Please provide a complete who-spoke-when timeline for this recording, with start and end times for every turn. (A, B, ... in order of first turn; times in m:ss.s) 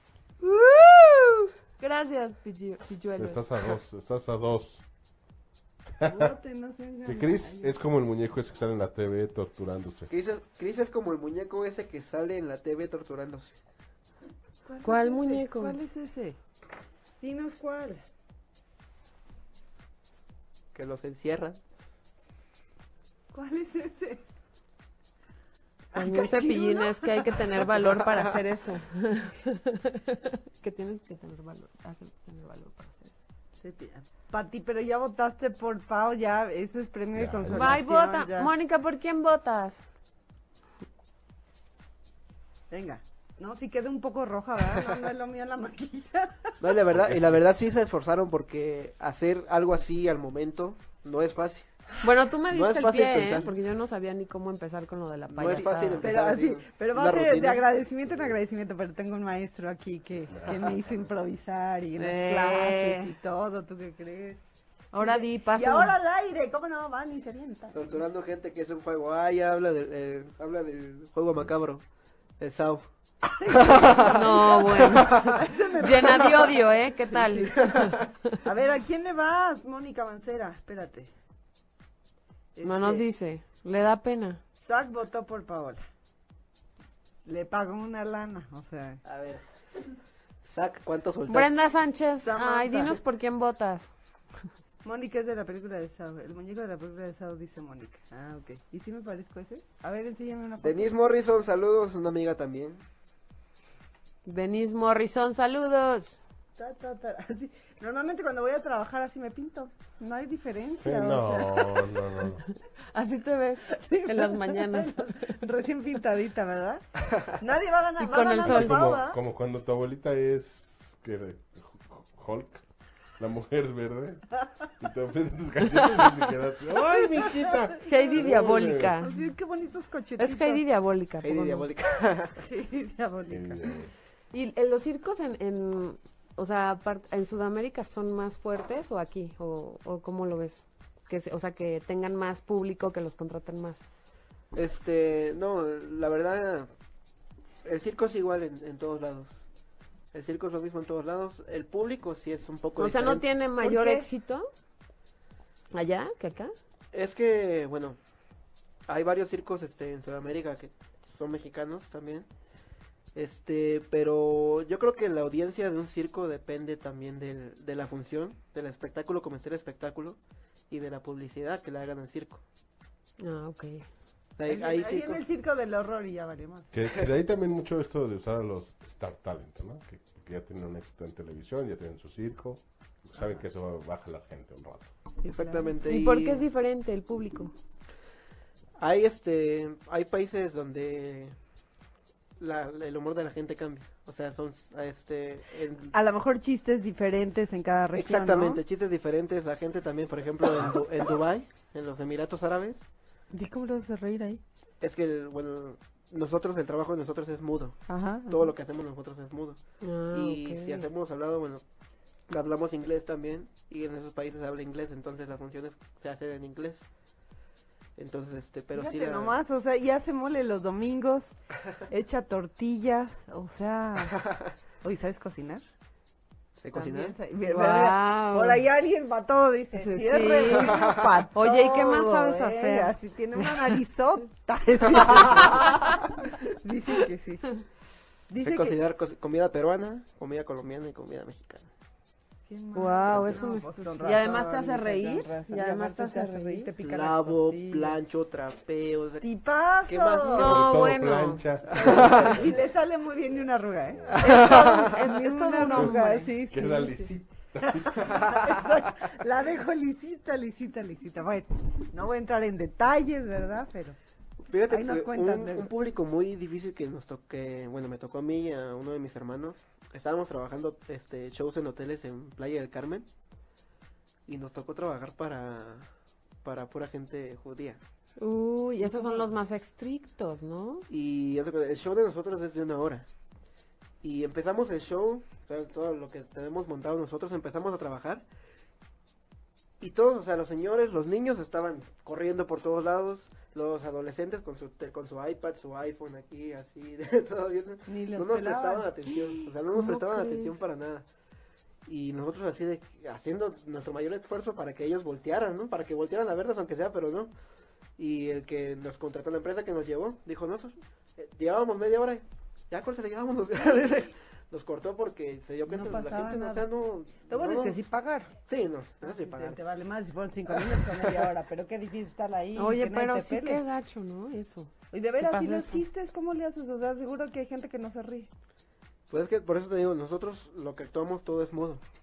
0:00.4-0:03.5 A
0:03.2-0:04.8 B
0:06.0-0:06.3 B
0:06.0-0:07.8 C
0:07.1-0:10.1 B
0:10.1-0:13.6 D
0:14.6-0:16.4 C
0:14.8-0:15.8 A
0:17.2-0:18.0 C
0:20.8-0:21.6 D
0:23.3-0:24.2 C
0:25.9-0:27.6 C
0:26.0-0:33.1 A
0:27.8-0:28.4 D
0:33.6-0:38.5 C
0:37.2-0:37.7 B
0:37.5-0:39.8 A
0:42.7-0:46.6 C
0:46.6-0:51.7 D
0:46.9-0:47.4 B
0:52.0-0:56.1 A
0:52.5-0:53.6 D
0:55.3-0:57.6 D
0:56.0-1:04.4 C
1:00.3-1:00.8 B
1:02.0-1:03.0 A
1:04.9-1:06.0 A
1:05.0-1:08.0 C
1:07.7-1:11.8 D
1:12.4-1:12.8 D
1:13.4-1:17.8 C
1:13.5-1:15.4 D
1:13.9-1:18.3 A
1:18.4-1:21.1 C
1:22.6-1:23.0 C
1:22.6-1:24.4 A
1:24.6-1:25.9 C
1:27.3-1:29.0 C
1:29.0-1:29.5 D
1:30.4-1:31.6 D
1:31.3-1:33.9 A
1:32.2-1:33.0 C
1:34.8-1:41.0 C
1:40.6-1:42.8 D
1:44.2-1:46.2 A
1:46.6-1:52.0 C
1:50.6-1:52.4 B
1:52.9-1:55.3 A
1:53.7-1:59.2 C
1:58.0-1:58.8 A
1:58.4-2:02.6 B
2:03.2-2:09.0 B
2:05.8-2:06.1 A
2:07.8-2:09.3 A
2:09.0-2:10.6 C
2:10.2-2:11.7 A
2:11.2-2:12.4 D
2:12.4-2:13.7 C
2:13.3-2:13.9 B
2:14.3-2:23.8 A
2:24.5-2:26.7 D
2:27.6-2:29.4 D
2:30.1-2:33.3 D
2:32.8-2:34.5 A
2:33.6-2:34.1 C
2:35.7-2:36.5 A
2:36.9-2:38.0 D
2:38.9-2:42.3 D
2:43.2-2:50.2 D
2:50.7-2:52.4 D
2:53.2-2:53.8 A
2:54.4-2:55.2 D
2:54.5-2:56.7 C
2:56.7-3:04.9 B
3:05.2-3:05.7 C
3:05.3-3:06.5 D
3:05.9-3:07.5 A
3:08.8-3:11.4 D
3:12.4-3:16.0 D
3:15.9-3:18.6 C
3:18.0-3:22.8 D
3:23.3-3:24.4 C
3:24.8-3:31.6 D
3:27.9-3:28.5 C
3:29.8-3:30.9 A
3:32.3-3:36.9 D
3:38.0-3:39.4 D
3:38.7-3:41.3 C
3:41.9-3:45.6 C
3:46.6-3:47.2 D
3:46.7-3:55.9 C
3:47.4-3:48.6 A
3:49.8-3:53.5 A
3:50.7-3:51.0 D
3:56.5-3:57.5 C
3:58.3-3:58.8 C
3:58.4-4:01.7 D
4:02.5-4:08.0 C
4:02.8-4:06.7 A
4:06.8-4:09.3 D
4:09.2-4:10.6 C
4:09.9-4:10.9 D
4:10.3-4:11.4 A
4:10.4-4:12.5 B
4:11.7-4:24.0 C
4:11.7-4:12.5 D
4:14.1-4:15.0 D
4:14.2-4:16.4 A
4:15.7-4:18.4 B
4:18.2-4:18.5 D
4:24.5-4:33.1 D
4:24.7-4:25.7 C
4:34.3-4:35.9 D
4:36.4-4:37.8 D
4:38.2-4:40.8 A
4:38.9-4:39.2 C
4:40.9-4:43.1 D
4:44.0-4:48.3 D
4:49.8-5:01.1 D
4:57.9-4:58.9 C
4:59.1-5:00.6 A
5:01.9-5:07.3 D
5:08.0-5:17.8 D
5:15.7-5:16.7 C
5:17.3-5:18.3 C
5:18.5-5:19.6 D
5:19.0-5:23.6 C
5:20.5-5:21.3 D
5:22.6-5:25.8 A
5:24.9-5:28.3 C
5:29.1-5:31.8 D